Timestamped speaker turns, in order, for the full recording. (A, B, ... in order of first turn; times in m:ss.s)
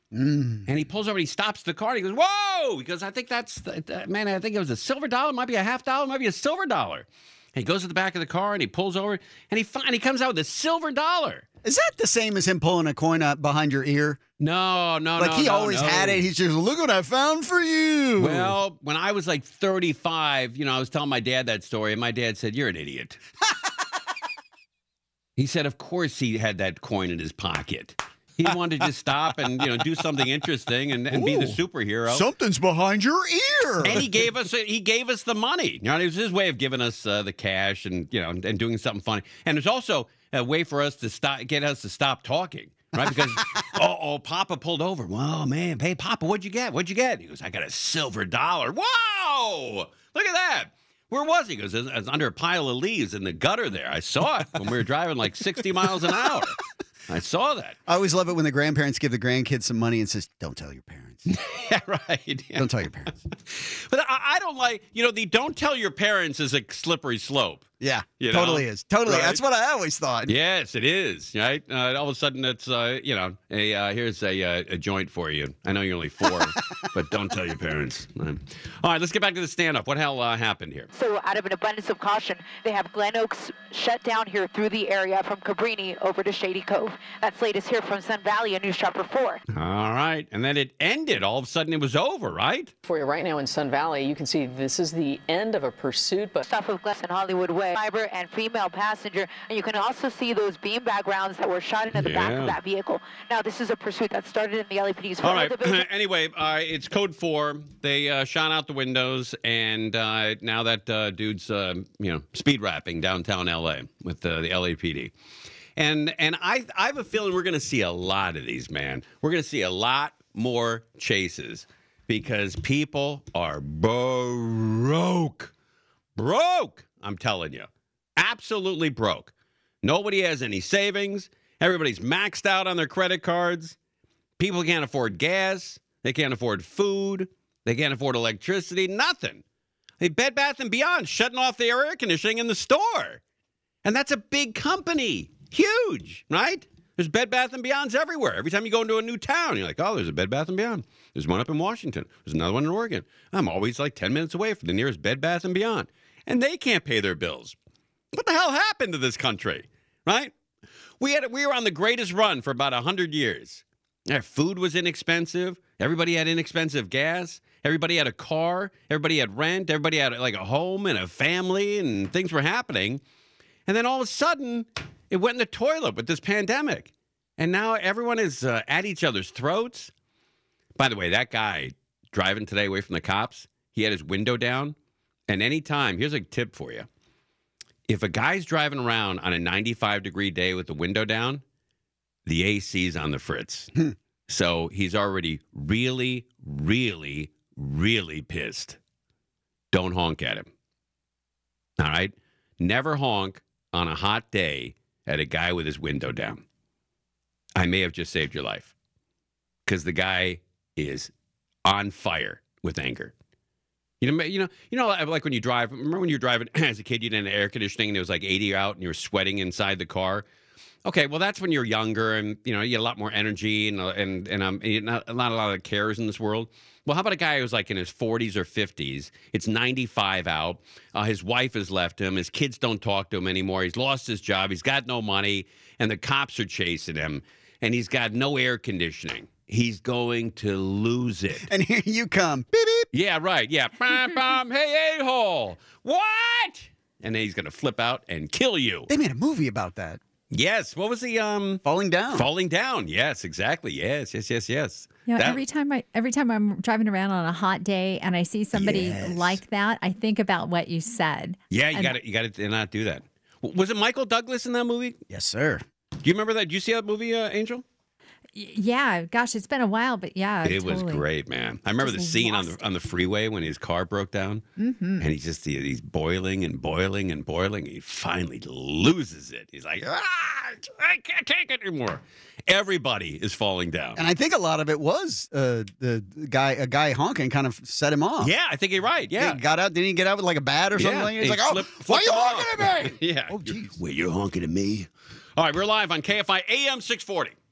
0:00.1-0:00.7 A
0:00.7-0:11.4 B
0:11.6-0:14.2 A
0:14.4-0:16.2 B
0:15.2-0:18.6 A
0:18.2-0:23.2 B
0:25.4-0:32.2 B
0:31.1-0:34.1 A
0:33.8-0:57.8 B
0:43.0-0:43.4 A
0:56.1-0:56.4 A
0:57.9-1:01.4 A
1:01.3-1:02.7 B
1:02.6-1:03.2 A
1:03.5-1:07.6 B
1:07.8-1:10.3 A
1:08.2-1:09.4 B
1:10.3-1:20.9 B
1:20.9-1:29.4 C
1:29.5-1:32.7 B
1:32.8-1:36.5 D
1:36.4-1:45.8 C
1:41.9-1:42.6 B
1:45.2-1:55.1 B
1:55.8-2:05.5 B
2:06.2-2:09.3 B
2:09.8-2:13.8 B
2:14.4-2:19.4 B
2:20.0-2:23.2 B
2:23.8-2:37.6 B
2:38.1-2:40.3 B
2:41.0-2:53.0 B
2:53.7-2:59.9 B
3:00.8-3:04.8 B
3:05.3-3:06.9 B
3:07.9-3:11.4 B
3:12.3-3:13.7 B
3:14.3-3:18.8 B
3:19.7-3:20.5 B
3:21.8-3:26.4 B
3:27.6-3:28.7 B
3:29.7-3:31.1 B
3:31.6-3:33.1 B
3:34.0-3:40.2 B
3:40.8-4:01.5 B
4:01.4-4:02.9 A
4:02.9-4:08.9 B
4:08.9-4:10.0 A
4:10.3-4:15.4 B
4:11.6-4:12.3 A
4:15.1-4:22.0 E
4:18.5-4:19.4 A
4:21.5-4:25.0 B
4:25.1-4:25.6 A
4:26.0-4:27.6 B
4:28.4-4:31.1 E
4:30.4-4:34.4 B
4:31.8-4:32.6 E
4:34.6-4:35.1 E
4:35.0-4:44.0 B
4:44.0-4:48.3 A
4:48.2-4:49.4 B
4:49.1-4:53.8 A
4:50.8-4:57.4 B